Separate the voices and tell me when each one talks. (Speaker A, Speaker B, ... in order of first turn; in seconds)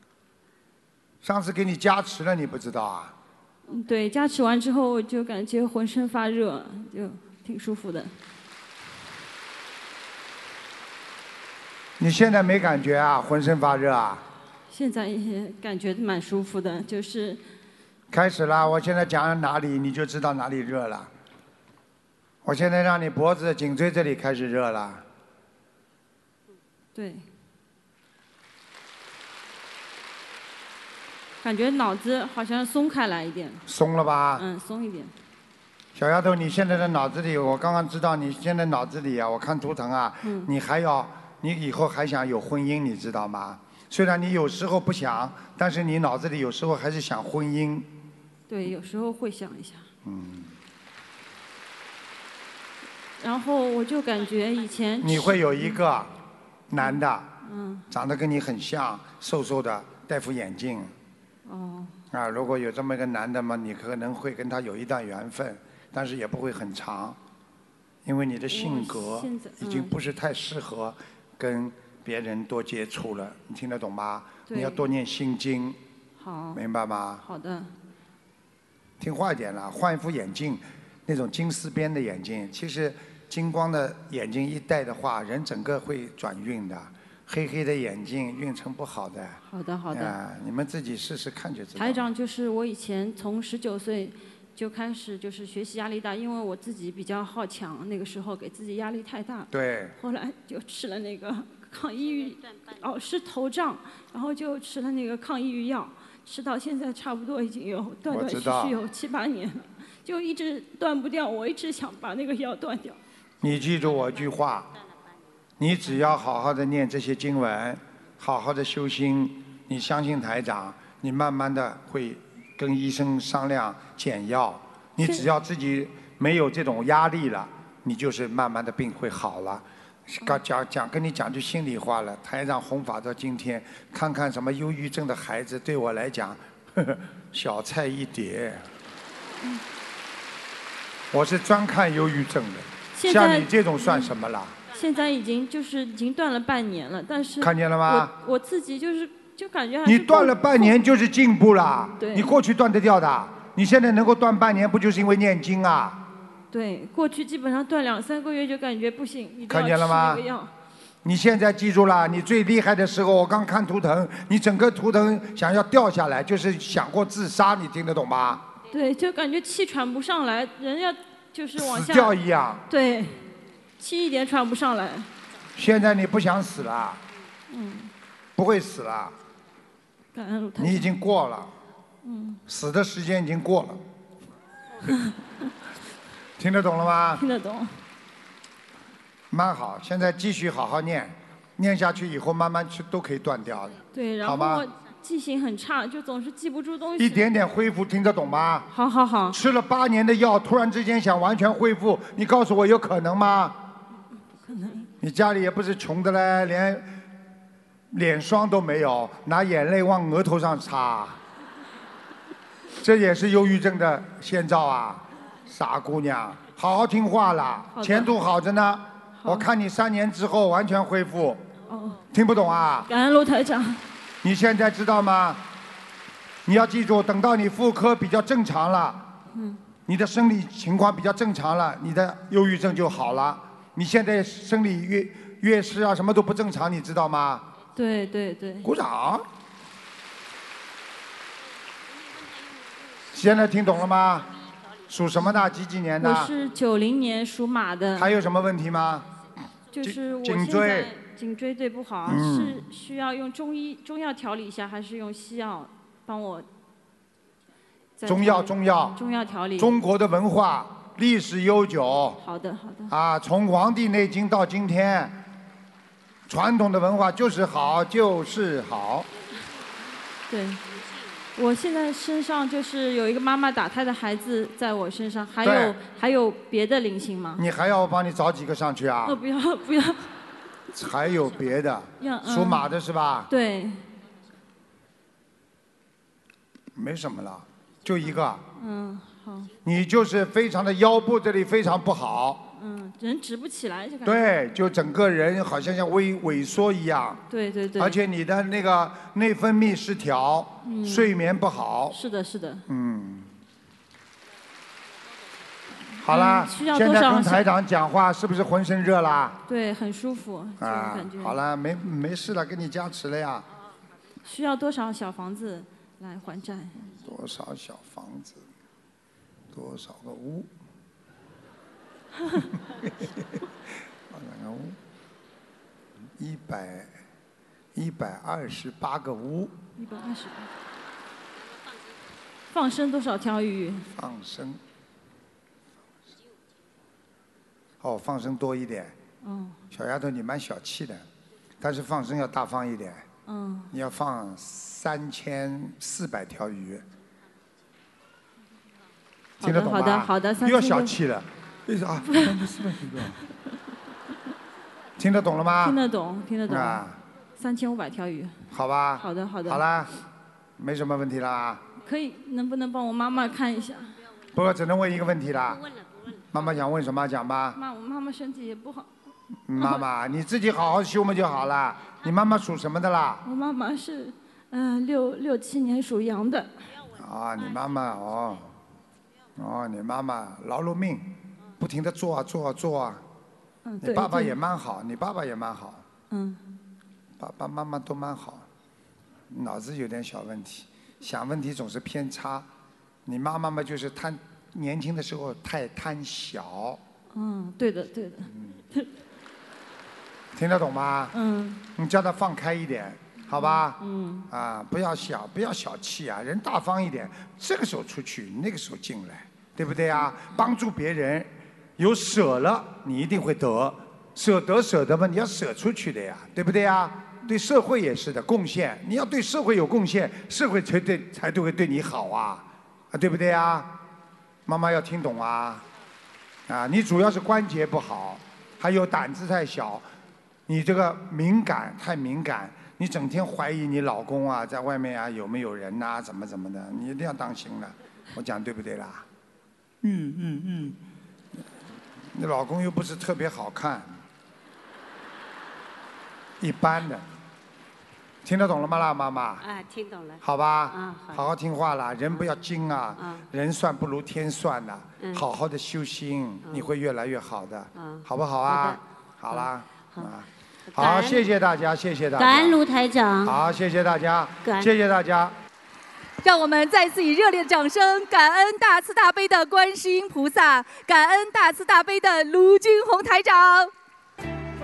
Speaker A: 1.2-3.1, 12.0-14.2, 18.1-21.1, 22.4-25.1, 33.7-34.4, 35.9-47.9, 50.0-50.6, 55.0-56.1, 56.7-57.3, 57.9-60.9, 62.1-67.2, 68.0-75.8, 76.5-77.2, 79.0-89.4, 89.9-92.1, 99.5-99.9, 108.1-108.8, 113.4-114.7, 115.6-138.7, 141.1-144.6, 147.4-148.1, 149.8-156.0, 159.5-160.2, 161.0-168.5, 171.6-172.7, 175.6-177.0, 178.4-179.2, 180.6-181.5, 182.4-183.8, 186.4-187.2, 189.3-194.6, 197.0-198.7, 199.3-203.6, 205.0-206.9, 207.9-211.2, 212.8-221.4, 222.1-222.9, 224.2-225.5, 226.4-229.1, 229.9-237.5, 238.6-239.3, 243.1-244.3, 244.9-246.3, 247.9-249.1, 249.8-250.9, 252.1-252.6, 258.1-259.0, 259.6-262.2, 262.9-265.3, 266.3-269.1, 275.4-275.8, 277.4-279.2, 280.7-283.3, 286.7-288.4, 289.6-292.4, 294.1-297.2, 297.8-302.0, 302.7-303.3, 306.0-309.4, 310.6-313.5, 316.8-318.4, 319.5-320.5, 322.4-323.5, 324.1-324.8, 326.2-326.9, 327.7-329.6, 333.9-334.6, 337.8-338.9, 339.7-341.1, 341.6-343.1, 343.7-346.9, 349.4-353.2, 355.0-355.8, 356.5-357.0, 358.5-359.9, 360.6-361.6, 364.3-365.6, 366.3-367.6, 369.5-373.2, 376.9-378.5, 379.4-383.0, 383.8-385.9, 387.2-388.4, 389.3-392.5, 393.1-396.8, 398.3-398.6, 400.3-401.1, 401.7-403.8, 404.3-423.8, 424.4-425.6, 426.5-429.9, 430.5-439.1, 442.0-444.0, 446.4-447.1, 448.2-449.4, 450.2-462.6, 463.2-465.4
Speaker B: 3.7-8.1, 14.7-17.4, 26.9-27.2, 31.4-33.6, 34.4-35.1, 40.2-40.5, 48.5-49.9, 53.2-55.8, 56.7-57.9, 61.5-61.9, 68.5-70.0, 74.5-74.8, 76.2-76.6, 77.2-77.7, 89.5-90.2, 91.7-113.0, 125.0-125.3, 142.9-144.1, 144.7-150.8, 152.0-152.4, 156.5-160.5, 168.7-172.2, 172.7-173.2, 173.8-175.1, 177.5-177.9, 180.1-180.9, 182.0-182.4, 184.9-185.1, 187.2-187.7, 193.9-197.3, 198.7-199.4, 204.4-204.9, 217.7-218.1, 219.2-219.5, 221.7-222.0, 222.9-223.8, 229.3-229.6, 237.7-238.7, 246.0-248.2, 249.7-256.5, 258.0-259.8, 262.2-262.9, 270.3-270.6, 271.4-277.4, 279.1-280.1, 282.0-282.7, 283.3-283.8, 288.6-289.5, 292.5-294.4, 297.3-298.0, 300.6-301.1, 301.9-302.6, 306.0-307.5, 309.5-311.4, 314.2-316.8, 329.8-330.5, 332.5-333.9, 339.2-339.6, 343.3-343.7, 349.4-350.9, 352.0-353.1, 355.6-356.9, 357.4-358.4, 359.0-359.6, 361.8-363.9, 367.6-368.9, 369.6-369.9, 373.2-376.5, 383.6-384.4, 386.1-386.4, 397.1-398.9, 401.1-401.6, 403.3-404.3
Speaker C: 113.5-114.3, 365.6-366.1, 449.4-451.3, 453.0-453.2, 457.8-460.1, 460.7-461.2, 462.2-463.4, 464.4-464.7
Speaker D: 466.2-473.7